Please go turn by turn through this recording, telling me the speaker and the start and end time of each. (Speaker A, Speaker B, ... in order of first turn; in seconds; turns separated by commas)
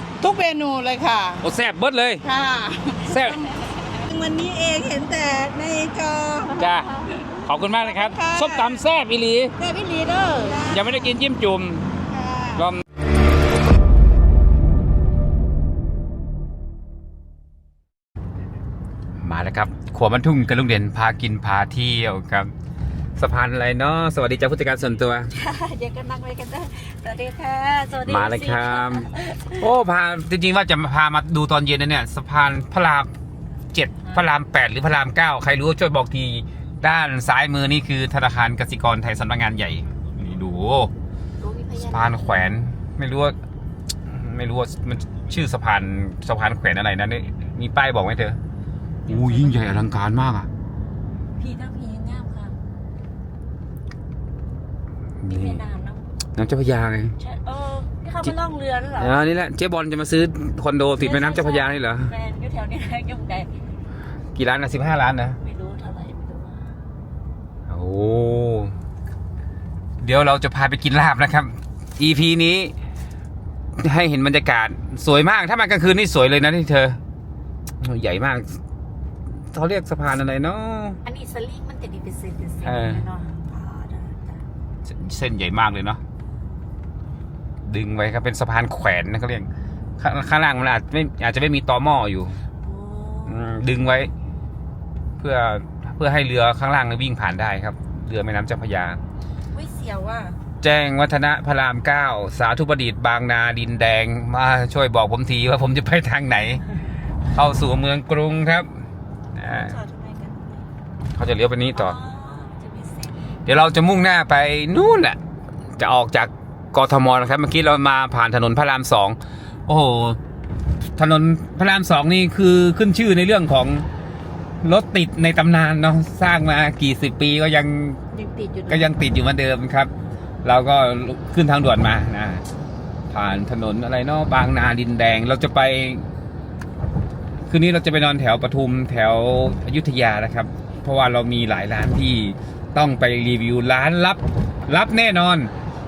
Speaker A: 0.2-1.4, Speaker B: 1.4-2.2, Speaker A: 2.2-7.3, Speaker B: 3.1-3.4, Speaker B: 6.6-6.9, Speaker C: 6.6-7.1, Speaker B: 7.4-9.5, Speaker A: 7.8-8.8, Speaker C: 9.6-10.7, Speaker A: 10.4-11.0, Speaker B: 10.7-11.8, Speaker A: 12.1-12.6, Speaker B: 12.6-12.8, Speaker B: 19.2-22.5, Speaker B: 23.2-25.3, Speaker C: 25.3-29.7, Speaker B: 28.1-33.1, Speaker B: 33.7-40.9, Speaker C: 41.4-42.5, Speaker B: 41.8-43.4, Speaker B: 44.1-48.4, Speaker C: 49.1-49.7, Speaker B: 49.1-50.5, Speaker C: 51.4-52.6, Speaker B: 55.2-55.6, Speaker C: 55.3-56.1, Speaker B: 56.4-57.1, Speaker C: 57.2-59.2, Speaker B: 59.0-62.1, Speaker C: 61.0-63.5, Speaker B: 64.3-65.4, Speaker C: 65.3-66.8, Speaker B: 67.7-68.7, Speaker B: 70.0-72.7, Speaker B: 73.8-77.0, Speaker B: 77.8-78.6, Speaker B: 79.5-81.0, Speaker C: 81.0-84.4, Speaker B: 82.7-83.0, Speaker B: 84.8-86.0, Speaker B: 87.7-89.5, Speaker B: 90.0-92.4, Speaker C: 92.6-93.4, Speaker B: 93.3-94.1, Speaker B: 95.2-99.0, Speaker C: 99.5-100.4, Speaker B: 100.6-106.6, Speaker B: 107.3-108.7, Speaker B: 109.4-109.7, Speaker C: 109.5-110.7, Speaker B: 111.2-112.0, Speaker C: 111.7-113.3, Speaker B: 113.5-115.2, Speaker B: 115.8-120.2, Speaker B: 121.0-123.9, Speaker B: 124.6-128.0, Speaker C: 128.1-128.9, Speaker B: 128.7-129.9, Speaker B: 130.4-132.4, Speaker B: 133.1-136.1, Speaker B: 137.5-145.5